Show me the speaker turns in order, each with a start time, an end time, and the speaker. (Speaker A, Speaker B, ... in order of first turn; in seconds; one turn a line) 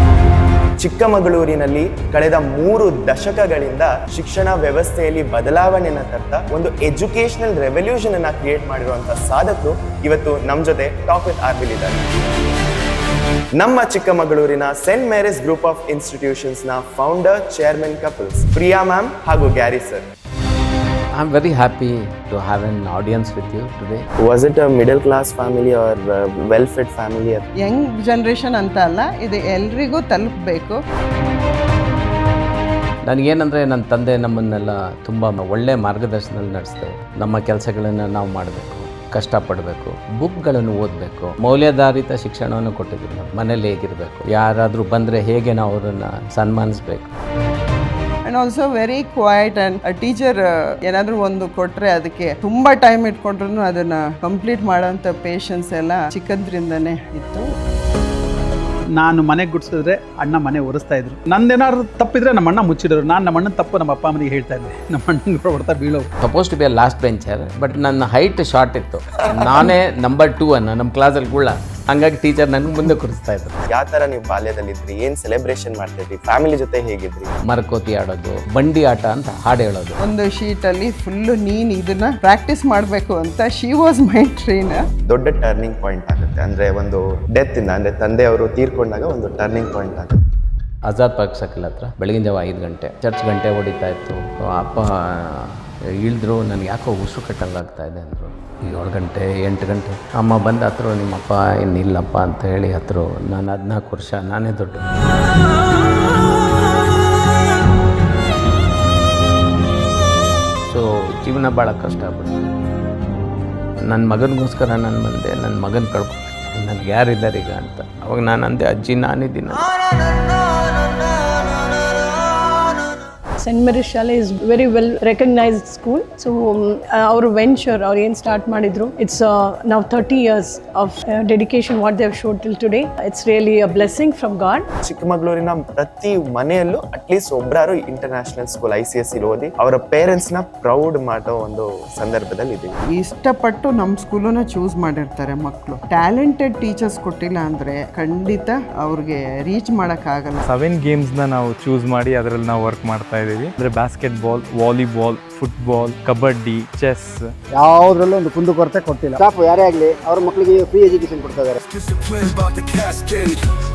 Speaker A: 0.8-12.0
Speaker A: 13.6-20.1
Speaker B: 21.1-24.1
Speaker A: 24.2-27.5
Speaker C: 27.6-30.8
Speaker B: 33.0-47.1
Speaker C: 48.3-57.5
Speaker D: 58.9-66.1
Speaker B: 66.2-73.6
Speaker A: 73.7-77.3
Speaker B: 77.5-80.0
Speaker C: 80.0-84.8
Speaker A: 85.0-90.2
Speaker B: 90.8-104.8
Speaker B: 110.7-112.3
Speaker B: 113.8-120.1
Speaker E: 123.4-134.7
Speaker A: 134.8-142.8
Speaker C: 142.9-150.4
Speaker F: 150.4-157.3
Speaker G: 157.5-161.6